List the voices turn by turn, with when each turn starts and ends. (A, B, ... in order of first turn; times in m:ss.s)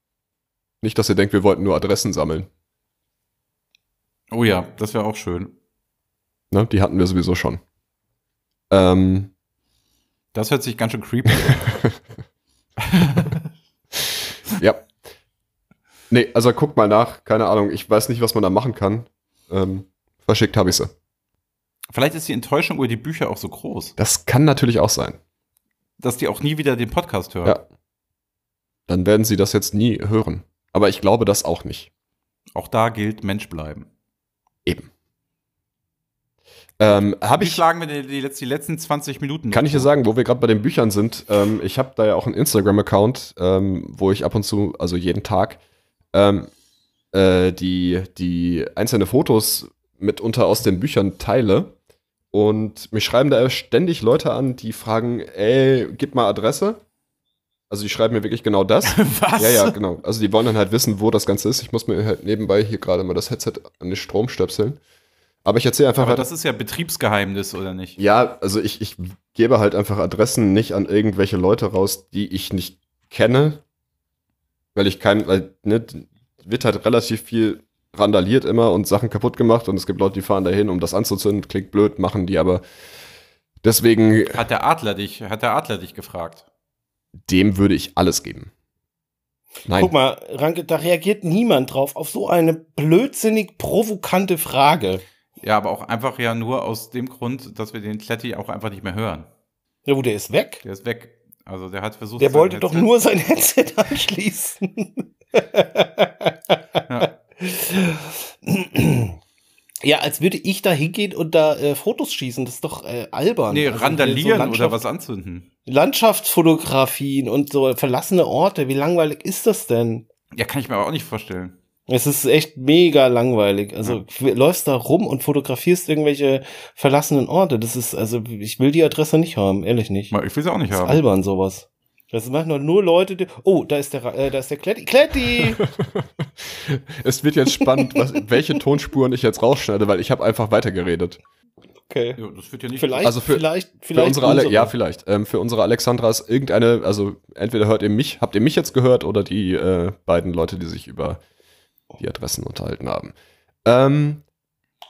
0:00.8-0:02.5 A
0:04.3-0:05.5 B
0:06.5-0:07.6 A
0:08.7-0:09.3 A
0:10.3-0:11.8 B
0:11.5-0:12.0 A
0:12.9-0:13.4 B
0:14.6-0:14.9 A
0:16.1-0:20.9 A
0:21.9-0:23.9 B
0:24.0-0:25.2 A
0:26.0-0:27.6 B
0:28.9-0:31.9 A
0:32.5-0:33.9 B
0:36.8-0:37.6 A
0:36.8-0:39.9 B
0:39.5-0:45.6 A
0:46.1-0:46.5 A
0:47.1-0:51.8 A
0:52.3-0:56.8 A
0:57.7-1:04.8 A
0:58.8-0:59.8 B
1:05.4-1:06.3 A
1:06.0-1:08.0 B
1:08.0-1:13.6 A
1:14.7-1:22.6 A
1:23.6-1:24.4 A
1:24.3-1:26.4 B
1:27.2-1:28.5 A
1:29.7-1:29.9 A
1:29.7-1:35.0 C
1:35.4-1:39.3 B
1:39.8-1:40.6 C
1:40.6-1:42.9 B
1:42.2-1:49.2 C
1:49.8-1:54.8 C
1:53.5-1:55.4 B
1:55.6-2:00.1 C
2:00.3-2:01.6 B
2:01.9-2:10.1 C
2:10.1-2:11.0 B
2:10.7-2:15.6 C
2:15.4-2:21.2 A
2:17.6-2:18.0 C
2:21.9-2:22.2 C
2:22.2-2:23.1 B
2:22.8-2:24.7 C
2:23.0-2:31.2 A
2:32.0-2:33.1 A
2:33.6-2:34.2 A